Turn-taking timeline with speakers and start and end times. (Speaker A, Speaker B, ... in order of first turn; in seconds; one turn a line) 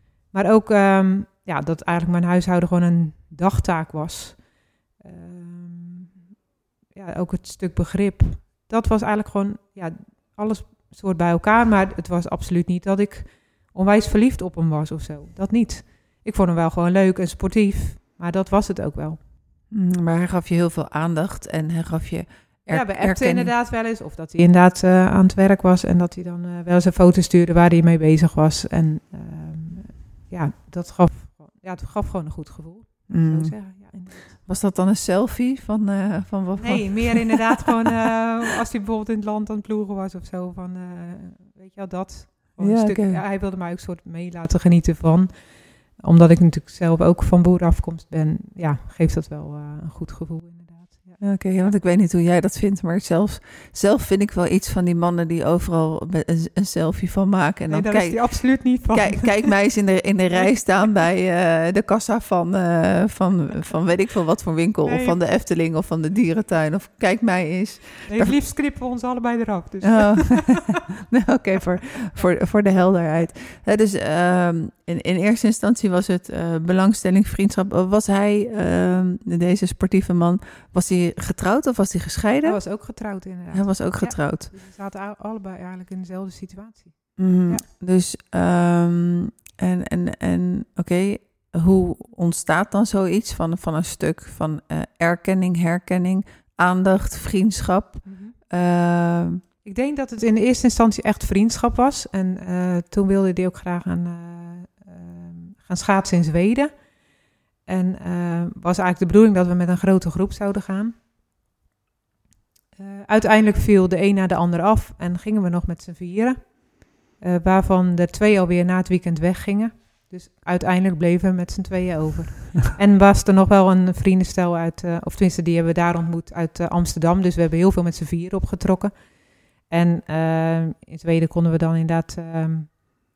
Speaker A: 0.3-6.3
Speaker A: 6.9-19.2
Speaker B: 19.7-23.5
Speaker A: 22.7-34.4
Speaker B: 33.1-37.4
Speaker A: 36.6-51.7
Speaker B: 42.6-43.2
Speaker B: 51.2-68.4
Speaker A: 57.7-59.8
Speaker A: 64.8-65.2
Speaker A: 68.1-70.8
Speaker B: 69.8-84.5
Speaker A: 82.4-87.6
Speaker B: 87.2-99.4
Speaker A: 98.0-98.4
Speaker A: 99.6-107.0
Speaker A: 107.6-110.9
Speaker A: 112.8-133.0